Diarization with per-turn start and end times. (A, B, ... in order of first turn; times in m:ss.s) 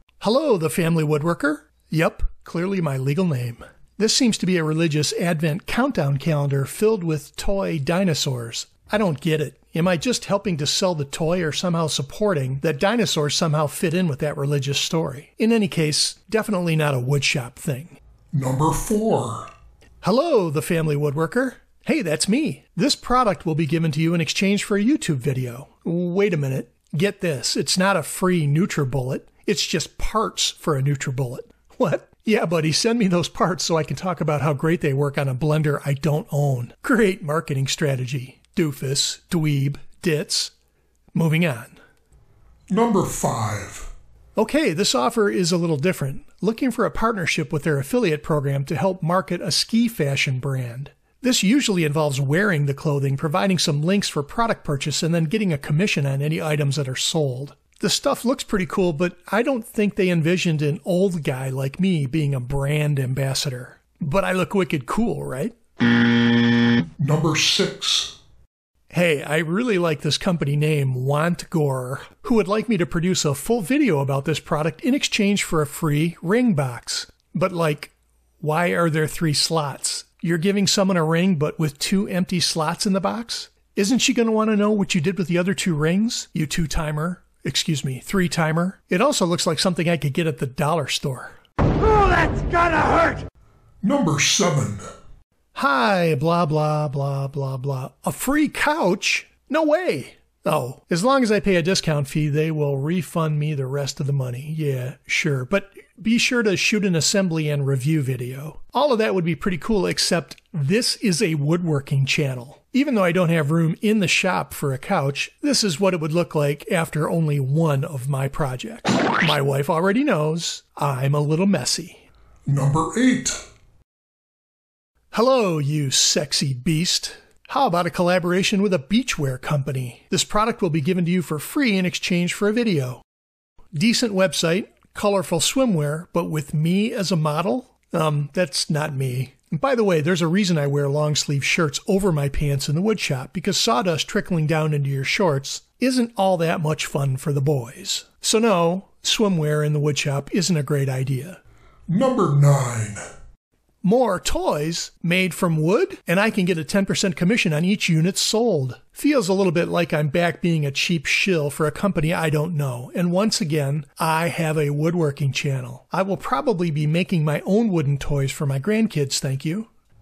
0:00.2-0:18.0 A
0:18.3-0:19.5 B
0:20.0-0:40.5 A
0:41.2-0:41.8 A
0:42.7-0:43.9 B
0:44.4-1:05.6 A
1:07.0-1:08.1 B
1:08.9-1:33.2 A
1:33.8-1:34.9 B
1:35.6-2:02.1 A
2:02.5-2:03.4 B
2:05.1-2:13.0 A
2:13.8-2:31.4 A
2:31.9-2:33.0 B
2:33.8-2:49.7 A